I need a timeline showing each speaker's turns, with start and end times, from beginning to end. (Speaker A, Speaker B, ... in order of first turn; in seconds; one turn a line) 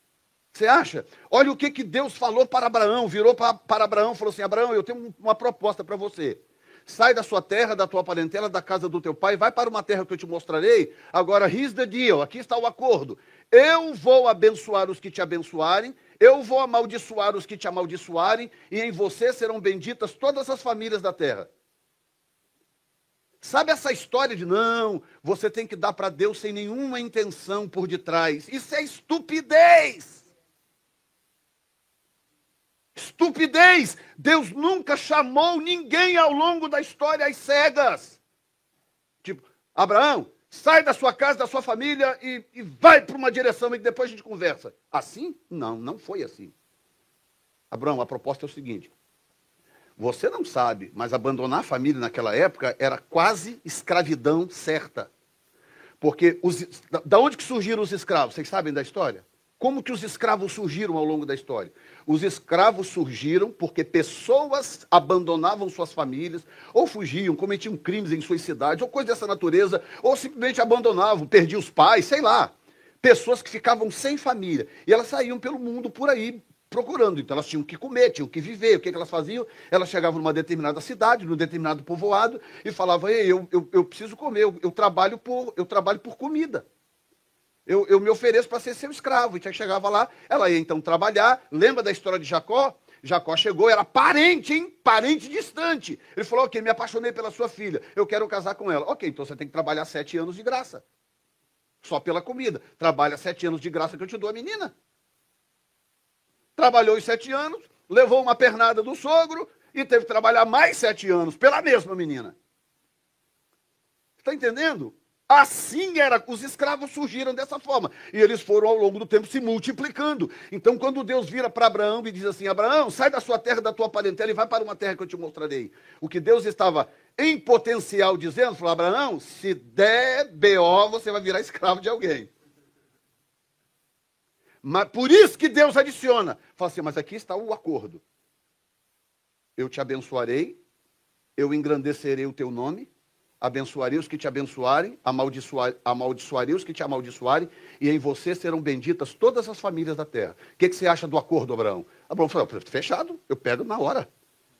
Speaker A: 0.5-21.5
Speaker A: 23.4-30.2
Speaker A: 32.9-38.2
Speaker A: 39.2-46.5
Speaker A: 47.7-48.9
Speaker A: 50.0-55.1
Speaker A: 56.0-86.6
Speaker A: 87.7-100.8
Speaker A: 101.8-104.7
Speaker A: 106.5-112.3
Speaker A: 114.2-132.3
Speaker A: 134.6-138.0
Speaker A: 139.6-140.6
Speaker A: 141.4-142.9
Speaker A: 143.4-154.1